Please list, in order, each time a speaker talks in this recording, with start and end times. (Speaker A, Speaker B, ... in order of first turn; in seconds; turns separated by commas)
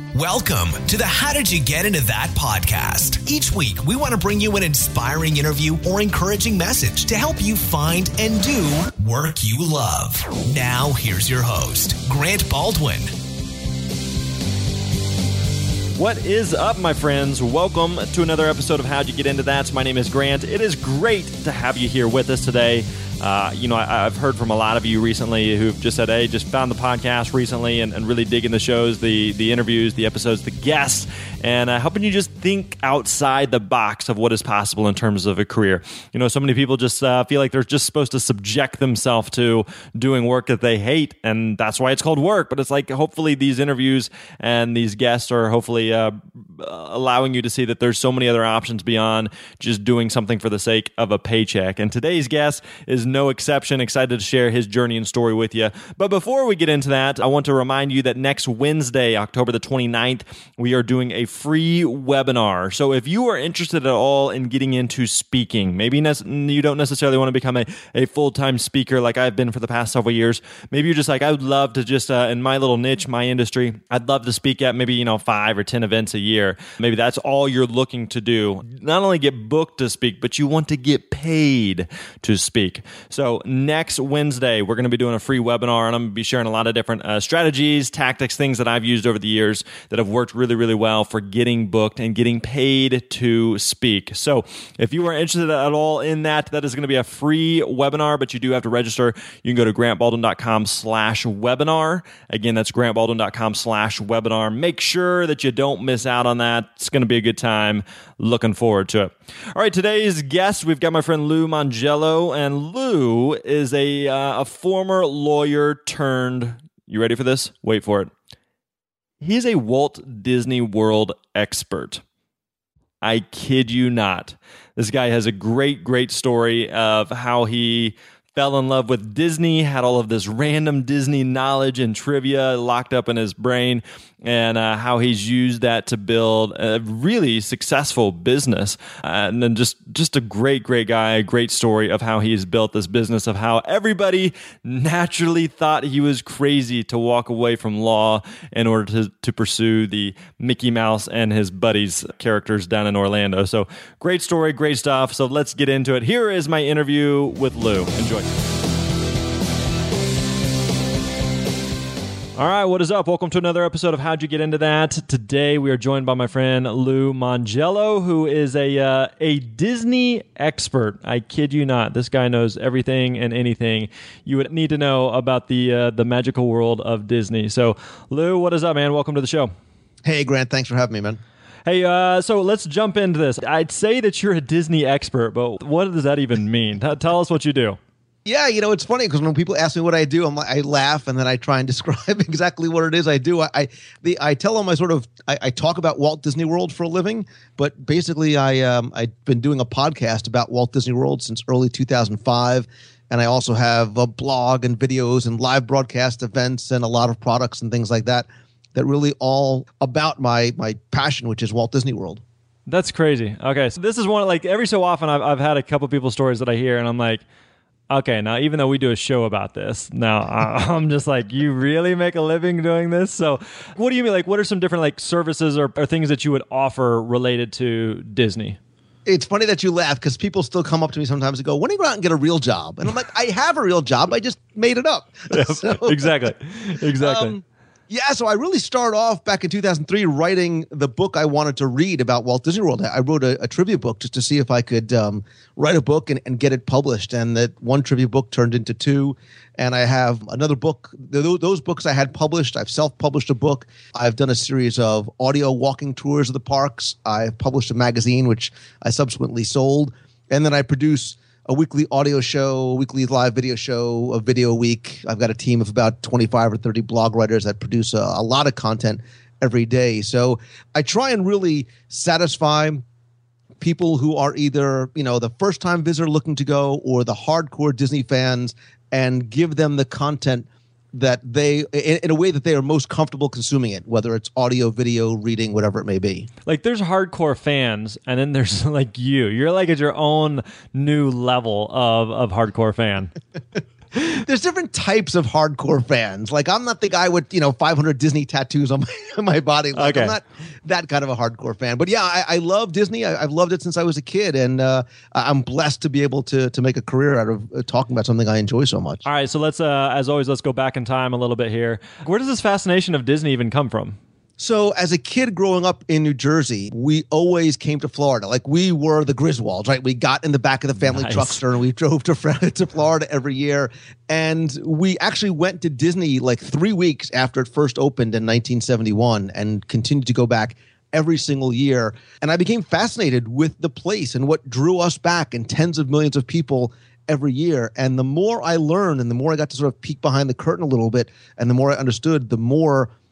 Speaker A: 0.1-13.1, Speaker B: 15.9-118.1, Speaker B: 119.2-122.0, Speaker B: 123.0-158.3, Speaker B: 162.4-179.5, Speaker C: 180.0-181.2, Speaker B: 181.7-187.8, Speaker C: 188.2-212.2, Speaker B: 212.7-217.2, Speaker B: 217.9-228.6, Speaker C: 229.0-236.1, Speaker B: 235.3-237.3, Speaker C: 237.0-272.8, Speaker C: 273.6-286.3, Speaker B: 286.4-293.1, Speaker C: 293.9-309.0, Speaker B: 299.8-300.1, Speaker B: 309.0-314.0, Speaker C: 314.4-342.9, Speaker B: 320.8-321.4